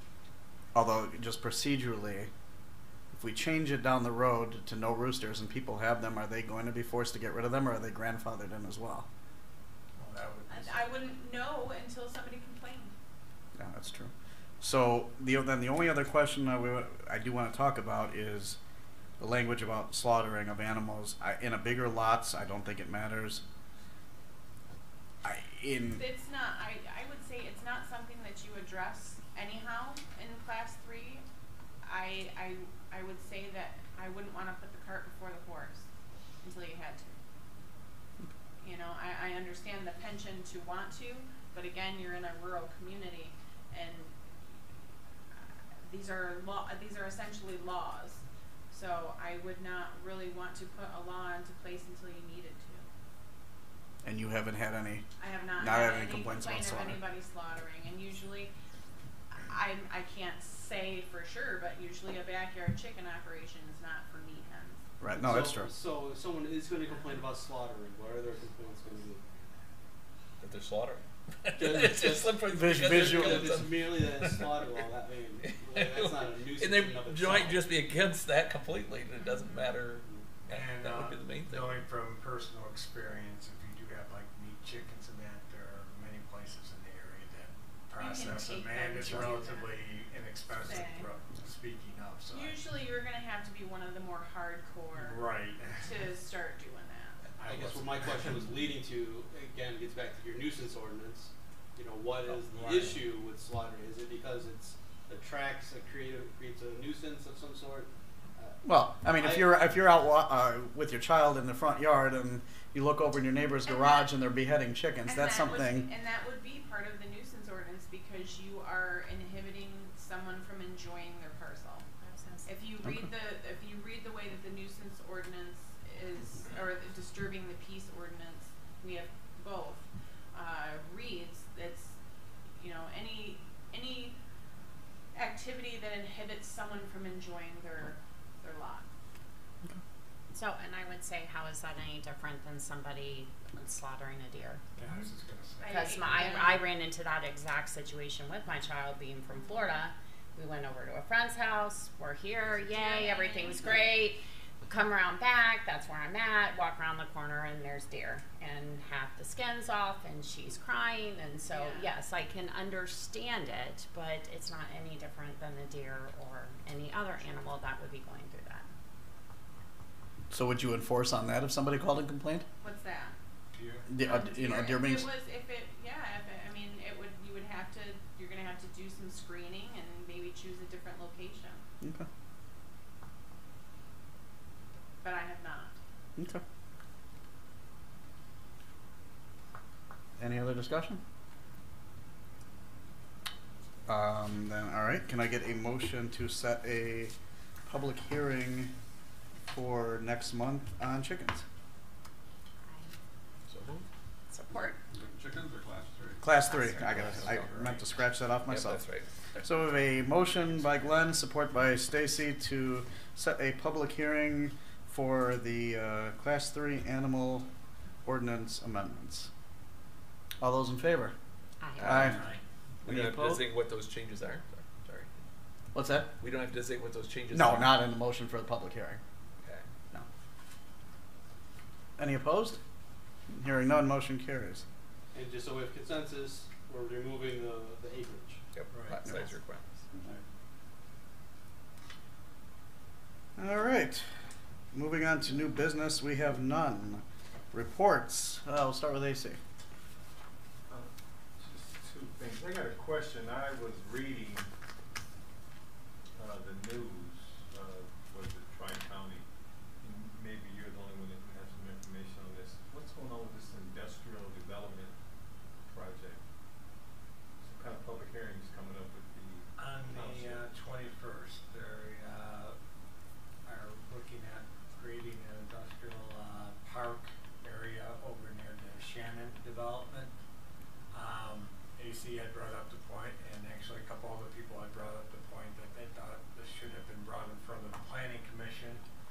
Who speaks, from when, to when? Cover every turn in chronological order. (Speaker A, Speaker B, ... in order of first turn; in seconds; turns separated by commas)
Speaker A: 0.7-2.3, Speaker A: 3.1-9.1, Speaker B: 9.9-10.8, Speaker C: 10.5-12.9, Speaker A: 13.6-18.6, Speaker A: 19.2-23.4, Speaker A: 25.2-26.0, Speaker C: 25.9-31.2, Speaker C: 31.8-35.9, Speaker C: 36.4-37.1, Speaker C: 38.6-44.1, Speaker C: 45.8-52.9, Speaker A: 54.0-55.0, Speaker C: 55.2-58.5, Speaker A: 55.6-57.0, Speaker C: 59.3-64.8, Speaker A: 65.0-65.7, Speaker D: 65.2-69.2, Speaker E: 70.4-81.9, Speaker D: 71.6-72.3, Speaker A: 72.5-73.6, Speaker D: 73.4-77.6, Speaker B: 80.5-92.6, Speaker C: 88.0-89.7, Speaker C: 90.5-91.1, Speaker C: 92.3-97.2, Speaker B: 95.0-95.9, Speaker B: 97.3-98.3, Speaker D: 97.5-108.6, Speaker B: 102.3-103.0, Speaker A: 108.6-115.9, Speaker C: 113.7-114.1, Speaker C: 115.0-121.9, Speaker C: 122.4-132.0, Speaker C: 132.6-134.2, Speaker C: 135.1-138.9, Speaker F: 140.3-144.6, Speaker B: 144.8-145.7, Speaker C: 145.6-146.6, Speaker F: 145.7-168.7, Speaker C: 152.4-153.9, Speaker C: 161.5-161.9, Speaker A: 170.3-172.4, Speaker C: 172.6-173.1, Speaker B: 173.5-173.9, Speaker A: 173.9-175.1, Speaker C: 174.0-181.6, Speaker A: 181.8-182.1, Speaker C: 185.0-185.8, Speaker A: 186.2-186.4, Speaker A: 190.2-191.0, Speaker A: 193.9-197.1, Speaker A: 197.7-198.7, Speaker A: 199.5-201.4, Speaker F: 202.6-202.9, Speaker E: 203.5-203.8, Speaker F: 204.3-204.8, Speaker A: 206.2-208.8, Speaker F: 206.4-206.8, Speaker E: 206.8-207.8, Speaker E: 208.5-209.4, Speaker A: 209.4-217.4, Speaker A: 218.0-219.3, Speaker A: 220.4-221.1, Speaker F: 221.6-222.1, Speaker E: 221.8-222.3, Speaker A: 221.8-222.2, Speaker B: 222.1-222.4, Speaker E: 222.8-225.1, Speaker A: 222.8-223.4, Speaker A: 225.7-226.1, Speaker E: 226.2-227.9, Speaker A: 227.3-229.0, Speaker A: 232.0-232.6, Speaker A: 233.3-234.6, Speaker D: 235.1-238.4, Speaker E: 238.5-239.7, Speaker A: 243.4-244.0, Speaker A: 244.7-249.4, Speaker G: 250.7-254.5, Speaker G: 256.1-259.2, Speaker G: 259.8-264.9, Speaker G: 265.6-266.2, Speaker G: 267.4-270.5, Speaker B: 269.6-272.6, Speaker B: 273.4-280.1, Speaker B: 280.9-288.8